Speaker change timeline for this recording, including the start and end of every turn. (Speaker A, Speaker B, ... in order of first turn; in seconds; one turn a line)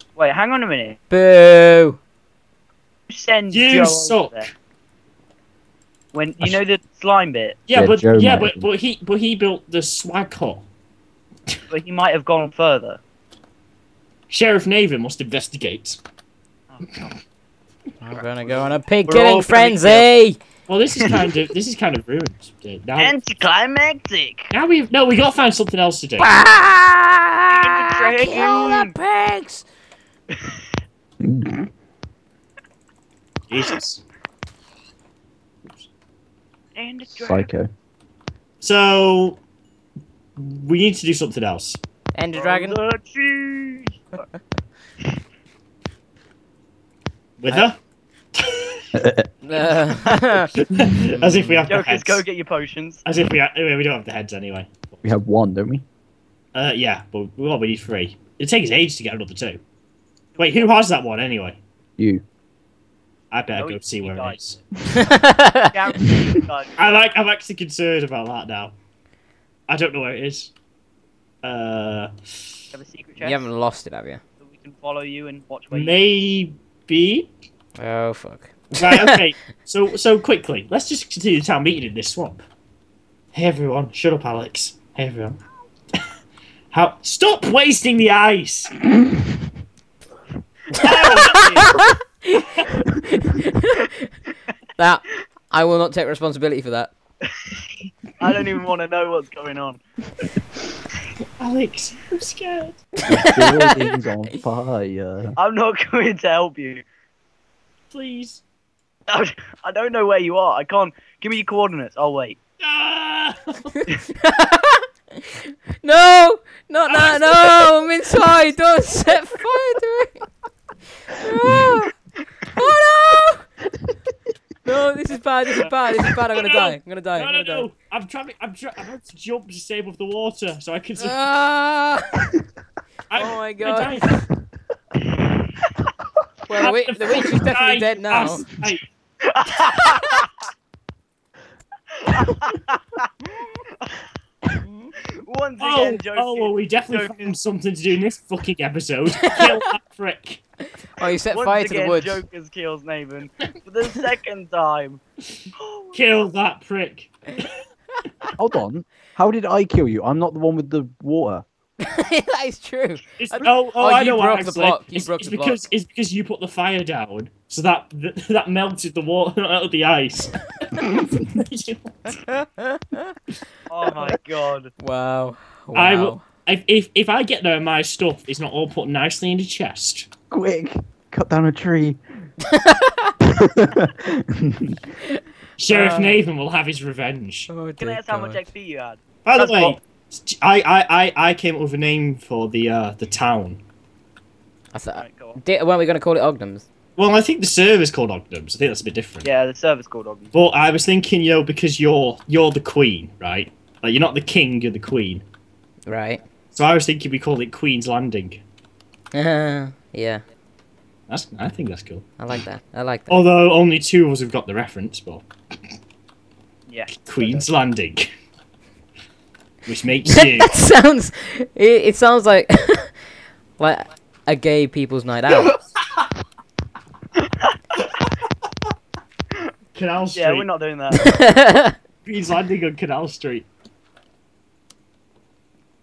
Speaker A: 0.1-1.0
Speaker B: 1.1-2.0
Speaker A: 3.1-4.5
Speaker C: 3.5-4.5
Speaker A: 6.1-7.6
Speaker C: 7.7-10.7
Speaker D: 7.7-8.7
Speaker A: 11.7-13.0
Speaker C: 14.3-16.0
Speaker A: 16.7-17.1
Speaker B: 18.0-20.4
Speaker A: 19.0-20.0
Speaker C: 20.6-23.1
Speaker A: 21.0-21.3
Speaker A: 23.0-24.5
Speaker C: 24.5-26.3
Speaker B: 26.2-29.6
Speaker A: 27.5-28.9
Speaker D: 31.2-31.7
Speaker C: 33.5-34.0
Speaker A: 36.7-37.5
Speaker D: 37.1-37.7
Speaker C: 38.6-39.4
Speaker C: 40.4-41.8
Speaker B: 42.1-42.8
Speaker A: 42.3-44.2
Speaker C: 47.4-47.8
Speaker C: 48.3-48.9
Speaker D: 48.9-49.3
Speaker B: 49.4-50.5
Speaker C: 50.5-52.2
Speaker A: 51.7-53.0
Speaker C: 53.0-55.0
Speaker D: 55.0-55.8
Speaker C: 56.5-59.6
Speaker A: 60.3-60.7
Speaker C: 60.4-61.6
Speaker D: 62.0-62.2
Speaker C: 63.3-64.6
Speaker A: 63.6-66.9
Speaker B: 65.0-65.7
Speaker C: 66.8-68.7
Speaker C: 69.7-70.5
Speaker C: 71.4-72.1
Speaker A: 72.7-73.5
Speaker B: 73.2-74.2
Speaker A: 74.4-76.0
Speaker C: 75.7-77.3
Speaker B: 77.8-79.2
Speaker C: 78.8-82.4
Speaker C: 83.3-85.4
Speaker C: 86.7-88.7
Speaker A: 90.7-91.8
Speaker C: 90.7-91.6
Speaker B: 91.2-94.1
Speaker B: 94.8-96.9
Speaker A: 98.2-99.8
Speaker C: 101.4-102.8
Speaker D: 103.0-105.3
Speaker B: 103.2-103.6
Speaker A: 105.4-106.8
Speaker C: 107.9-108.4
Speaker A: 109.1-112.4
Speaker C: 112.6-113.7
Speaker B: 114.2-120.2
Speaker C: 116.9-117.6
Speaker B: 121.1-122.0
Speaker B: 122.5-123.5
Speaker B: 124.6-127.7
Speaker C: 126.3-131.2
Speaker B: 131.0-132.3
Speaker C: 133.1-134.2
Speaker B: 133.2-134.3
Speaker B: 136.5-138.4
Speaker C: 136.5-138.8
Speaker A: 139.2-140.3
Speaker A: 142.0-144.0
Speaker A: 145.2-147.2
Speaker C: 145.6-150.4
Speaker B: 151.0-152.2
Speaker A: 151.3-155.0
Speaker A: 155.5-156.0
Speaker C: 155.9-157.6
Speaker D: 158.4-161.4
Speaker B: 161.8-165.6
Speaker C: 163.2-172.1
Speaker B: 172.3-173.1
Speaker A: 173.7-174.7
Speaker B: 174.8-176.2
Speaker C: 175.7-180.1
Speaker D: 180.3-182.3
Speaker B: 182.5-183.1
Speaker D: 183.2-184.8
Speaker B: 185.1-186.2
Speaker C: 185.6-187.5
Speaker B: 187.5-188.4
Speaker A: 187.8-189.8
Speaker C: 189.2-193.6
Speaker B: 194.7-196.7
Speaker A: 195.0-195.4
Speaker C: 197.0-199.3
Speaker A: 199.2-200.3
Speaker C: 200.3-205.2
Speaker B: 205.9-206.2
Speaker C: 206.5-208.4
Speaker B: 209.1-210.2
Speaker C: 211.1-212.1
Speaker B: 212.2-213.2
Speaker C: 213.1-215.2
Speaker A: 216.7-217.4
Speaker C: 216.9-218.1
Speaker C: 219.7-220.5
Speaker B: 220.1-223.0
Speaker B: 223.6-225.6
Speaker A: 227.2-227.9
Speaker C: 229.7-230.5
Speaker A: 230.1-231.2
Speaker B: 230.9-231.7
Speaker C: 232.0-233.5